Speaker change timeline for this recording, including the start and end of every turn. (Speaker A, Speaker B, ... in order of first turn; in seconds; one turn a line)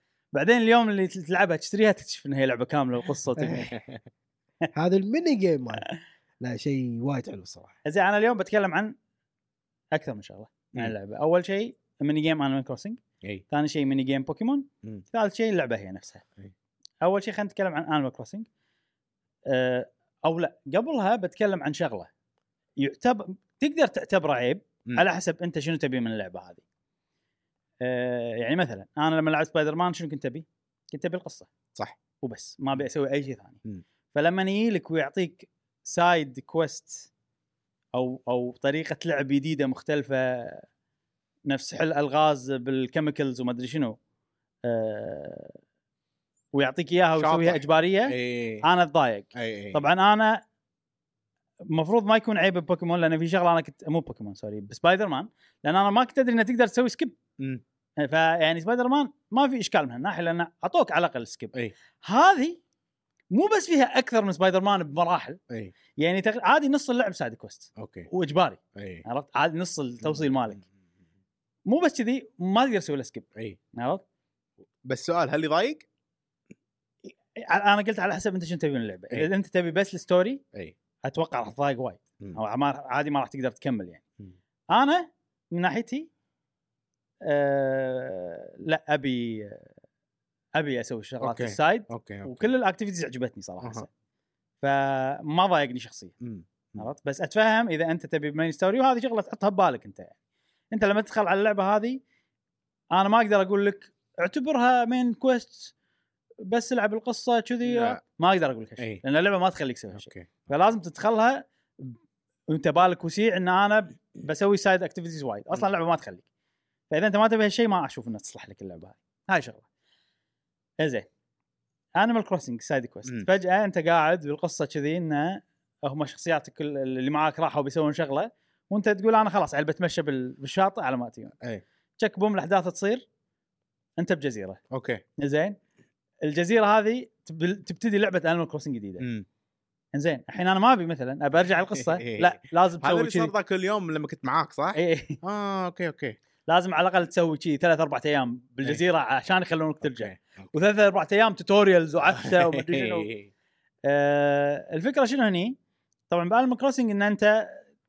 Speaker A: 0.3-3.7
Speaker B: 3.4-3.7
Speaker B: 4.7-5.9
Speaker B: 6.4-7.7
Speaker A: 7.8-8.9
Speaker A: 9.9-13.0
Speaker A: 13.5-16.2
Speaker A: 17.0-18.5
Speaker A: 19.5-22.1
Speaker A: 22.8-26.6
Speaker A: 27.8-31.5
Speaker A: 32.2-33.6
Speaker A: 34.1-37.1
Speaker A: 37.9-40.6
Speaker A: 41.5-44.0
Speaker A: 44.7-45.6
Speaker A: 46.5-50.4
Speaker C: 47.2-48.6
Speaker C: 49.4-49.8
Speaker A: 51.7-57.2
Speaker A: 58.0-62.6
Speaker A: 63.3-65.4
Speaker A: 66.0-70.6
Speaker C: 67.8-68.1
Speaker C: 68.8-69.0
Speaker C: 70.0-70.3
Speaker A: 71.7-74.0
Speaker C: 74.9-75.9
Speaker A: 77.5-80.4
Speaker A: 81.0-84.0
Speaker A: 84.7-86.1
Speaker A: 87.3-89.7
Speaker A: 90.5-93.9
Speaker C: 91.2-92.5
Speaker A: 94.6-96.1
Speaker C: 96.2-96.9
Speaker A: 96.8-100.1
Speaker A: 100.7-102.0
Speaker A: 102.9-105.7
Speaker A: 106.5-112.0
Speaker C: 107.6-108.0
Speaker C: 109.9-110.3
Speaker A: 112.5-116.2
Speaker A: 116.9-119.7
Speaker A: 120.8-121.1
Speaker A: 122.0-131.3
Speaker A: 132.0-133.1
Speaker A: 134.0-134.6
Speaker C: 134.7-135.0
Speaker A: 135.2-135.6
Speaker A: 136.2-139.1
Speaker C: 139.0-139.3
Speaker A: 139.9-143.3
Speaker C: 141.7-146.2
Speaker A: 144.8-145.2
Speaker A: 146.5-153.1
Speaker C: 149.8-150.5
Speaker C: 152.1-153.3
Speaker A: 153.9-155.6
Speaker A: 156.1-157.6